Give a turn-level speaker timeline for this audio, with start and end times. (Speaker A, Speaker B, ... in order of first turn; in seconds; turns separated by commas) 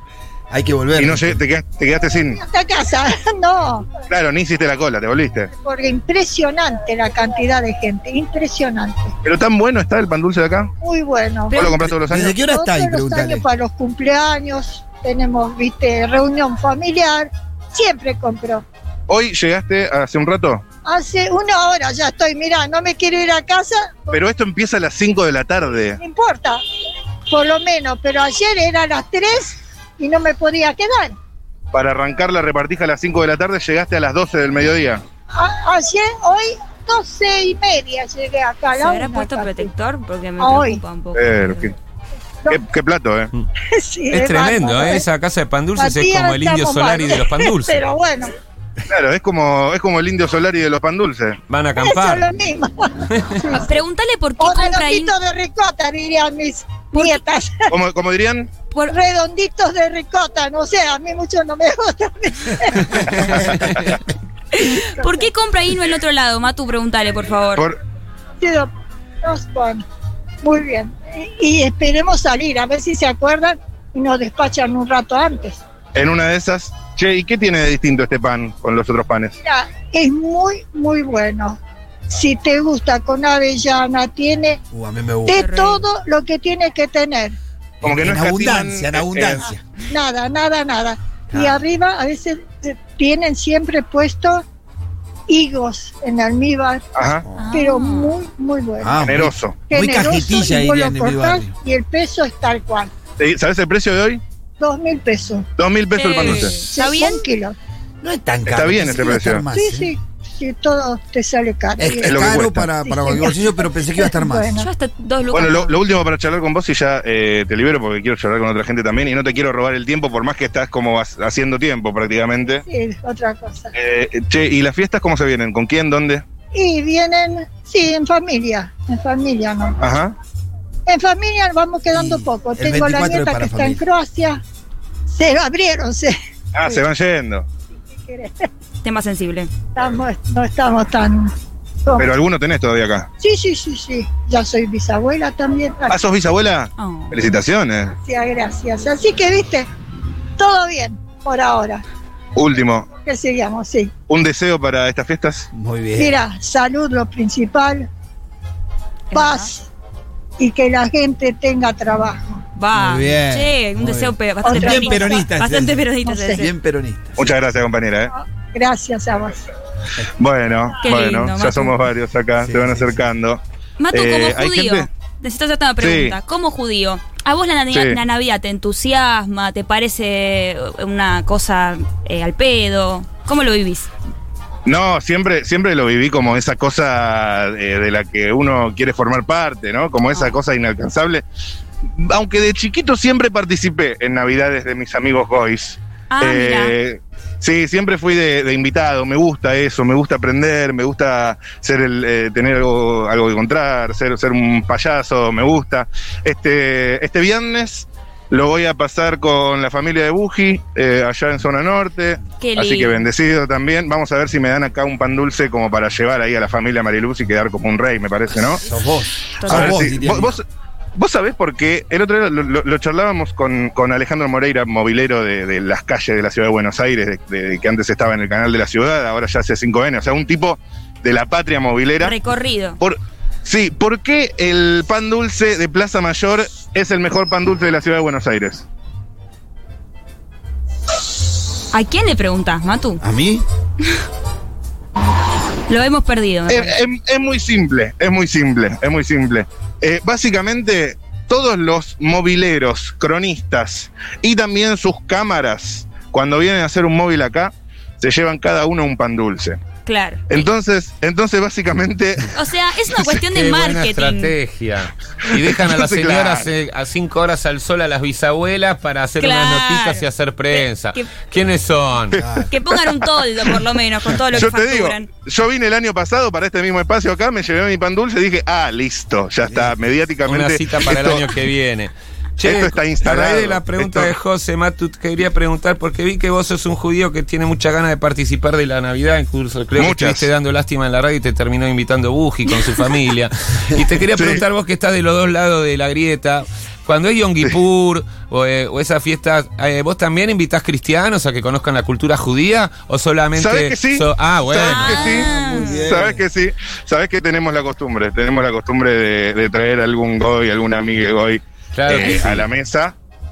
Speaker A: 0.5-1.4, Speaker B: 1.0-2.4, Speaker C: 2.4-3.9, Speaker B: 4.1-5.5, Speaker C: 5.5-9.1, Speaker B: 9.2-10.7, Speaker C: 10.8-11.7, Speaker B: 11.5-12.3, Speaker A: 11.6-13.4, Speaker C: 12.3-18.6, Speaker B: 19.1-20.6, Speaker C: 20.8-24.2, Speaker B: 24.1-26.0, Speaker C: 26.0-26.6, Speaker C: 27.3-31.2, Speaker B: 31.7-35.0, Speaker C: 35.3-39.7, Speaker D: 38.8-41.7, Speaker C: 40.4-40.8, Speaker B: 41.1-41.7, Speaker B: 42.5-43.3, Speaker C: 43.7-45.0, Speaker E: 44.1-47.8, Speaker C: 45.8-48.3, Speaker B: 48.9-51.4, Speaker E: 51.5-52.3, Speaker C: 51.8-53.7, Speaker D: 53.5-55.1, Speaker C: 54.4-57.7, Speaker D: 56.9-57.2, Speaker B: 57.7-58.5, Speaker C: 58.9-63.6, Speaker B: 63.2-63.9, Speaker D: 64.5-67.7, Speaker C: 64.8-65.2, Speaker C: 68.4-68.7, Speaker C: 69.2-69.8, Speaker C: 70.4-75.6, Speaker B: 75.9-79.3, Speaker C: 79.4-84.6, Speaker A: 84.7-85.5, Speaker C: 85.3-87.4, Speaker D: 85.3-85.8, Speaker B: 87.8-89.5, Speaker A: 87.8-89.6, Speaker C: 89.9-94.4, Speaker A: 91.3-91.6, Speaker C: 95.3-96.8, Speaker B: 96.9-97.2, Speaker D: 97.4-98.1, Speaker C: 97.5-99.1, Speaker A: 98.8-101.5, Speaker B: 99.0-99.6, Speaker C: 99.7-102.9, Speaker B: 103.2-104.2, Speaker C: 104.6-105.5, Speaker B: 105.6-106.6, Speaker D: 105.9-107.2, Speaker C: 106.6-107.5, Speaker A: 108.0-109.9, Speaker B: 108.5-109.4, Speaker C: 109.5-114.7, Speaker A: 111.8-114.6, Speaker B: 112.0-112.7, Speaker D: 114.5-115.8, Speaker B: 115.3-122.6, Speaker C: 122.7-123.7, Speaker B: 123.7-126.2, Speaker C: 126.5-129.8, Speaker B: 129.8-130.1, Speaker C: 130.9-134.4, Speaker A: 131.9-133.8, Speaker C: 135.1-136.8, Speaker B: 136.5-137.4, Speaker C: 138.0-138.5, Speaker D: 138.8-139.5, Speaker C: 139.7-141.3, Speaker C: 141.8-142.1, Speaker B: 142.0-143.1, Speaker C: 143.2-146.0, Speaker B: 145.9-147.9, Speaker D: 146.8-147.2, Speaker C: 148.0-149.7, Speaker C: 150.4-151.8, Speaker B: 152.3-152.9, Speaker C: 153.0-153.9, Speaker B: 154.1-155.5, Speaker A: 155.5-156.2, Speaker C: 156.0-157.9, Speaker D: 159.1-159.5, Speaker C: 159.1-159.7, Speaker C: 160.4-162.4, Speaker D: 162.6-166.5, Speaker A: 162.7-167.2, Speaker C: 164.4-165.3, Speaker C: 166.0-166.5, Speaker B: 167.2-168.1, Speaker C: 168.1-169.4, Speaker B: 170.2-173.4, Speaker D: 170.8-171.8, Speaker A: 172.4-173.0, Speaker D: 173.8-183.9, Speaker B: 173.9-174.9, Speaker B: 175.8-176.2, Speaker B: 177.7-178.0, Speaker B: 184.7-191.2, Speaker D: 190.1-190.4, Speaker B: 191.9-218.6, Speaker D: 196.1-196.7, Speaker D: 212.4-213.0, Speaker A: 218.6-220.4, Speaker D: 219.4-219.8, Speaker B: 219.4-220.4, Speaker B: 221.0-232.1, Speaker D: 232.0-232.8, Speaker B: 232.8-238.7, Speaker D: 241.7-243.0, Speaker A: 243.0-243.4, Speaker D: 245.7-246.8, Speaker B: 246.5-259.6, Speaker D: 259.9-260.5, Speaker B: 260.3-262.3, Speaker D: 262.3-264.3, Speaker E: 263.2-272.2, Speaker B: 265.3-266.5, Speaker D: 269.2-271.1, Speaker A: 272.1-272.5, Speaker D: 272.5-275.1, Speaker B: 274.3-281.3, Speaker A: 279.5-279.7, Speaker E: 280.2-305.2, Speaker B: 282.4-284.1, Speaker B: 289.8-290.3, Speaker B: 294.1-294.4, Speaker B: 303.4-312.9, Speaker D: 304.6-305.8, Speaker A: 304.9-306.2, Speaker E: 311.7-312.5